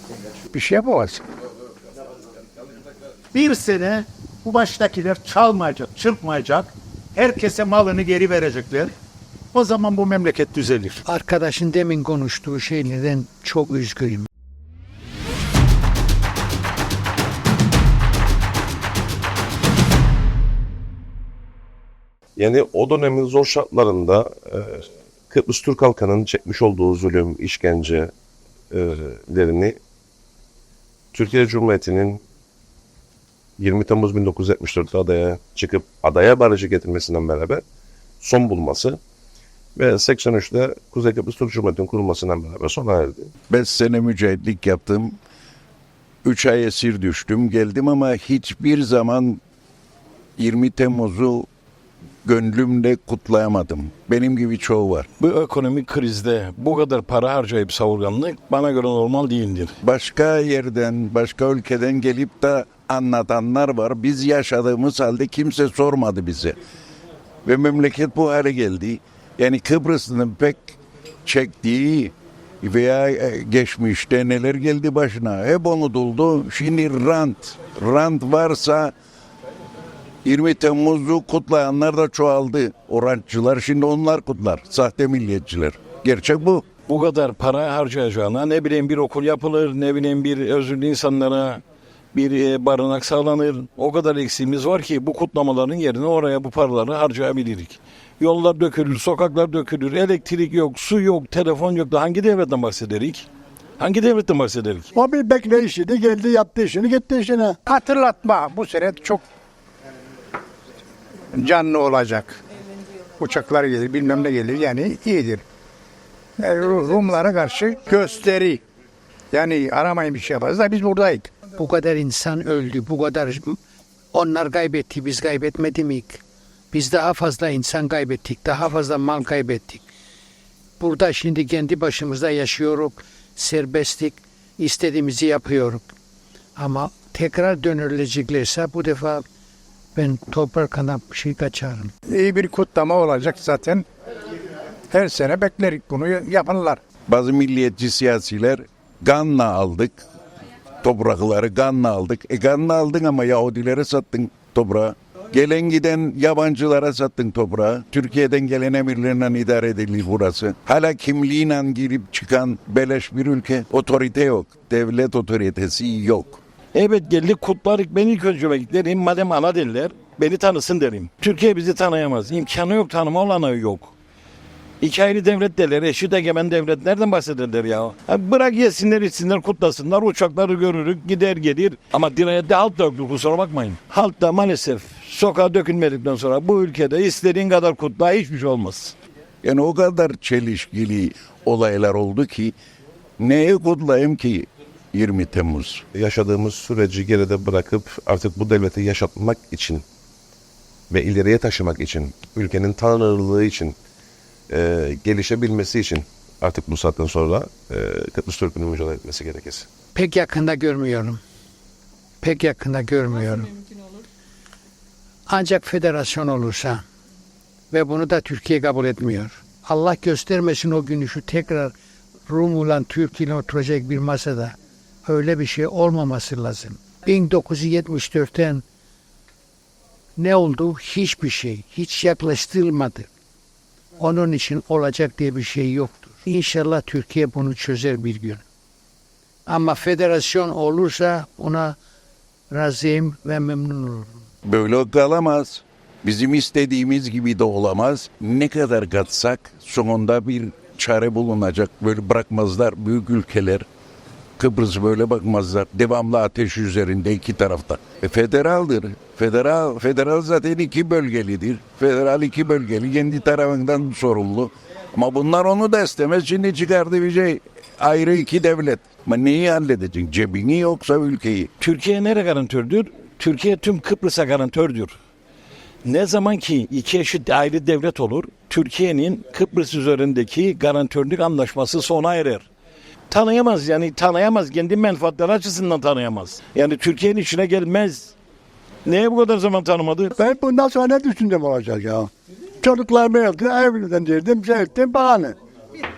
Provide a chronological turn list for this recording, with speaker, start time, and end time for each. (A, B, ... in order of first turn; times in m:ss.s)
0:00.5-0:01.2 A
0:03.3-0:08.9 B
0:09.5-0:11.0 B
0:11.0-0:14.3 C
0:22.4-0:28.1 D
0:28.7-0:29.8 D
0:31.1-0:32.2 D
0:33.6-0:37.6 D
0:38.2-0:39.0 D
0:39.8-0:43.3 D
0:43.5-0:45.2 E
0:46.2-0:49.4 E
0:50.4-0:51.5 E
0:52.2-0:55.1 E
0:55.2-0:59.7 F
0:59.8-1:06.6 E
1:07.4-1:18.9 E
1:20.2-1:26.7 E
1:26.9-1:31.6 F
1:32.1-1:43.3 F
1:43.8-1:44.9 F
1:45.0-1:47.6 G
1:47.7-1:49.2 A
1:51.3-1:52.4 A
1:53.2-1:55.4 A
1:56.4-1:58.6 A
1:59.3-2:01.3 A
2:01.6-2:03.6 C
2:04.1-2:09.8 C
2:10.8-2:15.9 C
2:16.6-2:19.2 C
2:20.0-2:21.9 C
2:22.1-2:23.8 A
2:24.9-2:26.8 A
2:27.1-2:30.0 E
2:30.8-2:46.4 E
2:46.8-2:53.9 F
2:54.8-3:09.0 F
3:09.4-3:12.6 E
3:13.2-3:15.8 E
3:16.0-3:19.8 D
3:20.9-3:23.8 D
3:24.5-3:29.7 D
3:30.0-3:31.2 C
3:32.2-3:33.6 C
3:35.3-3:36.8 C
3:37.7-3:41.8 C
3:42.3-3:48.6 C
3:50.2-3:53.1 C
3:54.0-3:58.4 C
3:59.5-4:01.8 C
4:02.5-4:04.2 C
4:04.5-4:13.7 E
4:14.4-4:31.5 E
4:31.6-4:35.0 F
4:35.8-4:42.5 F
4:43.1-4:48.2 F
4:48.9-4:50.1 F
4:50.2-4:52.1 G
4:52.6-4:55.4 G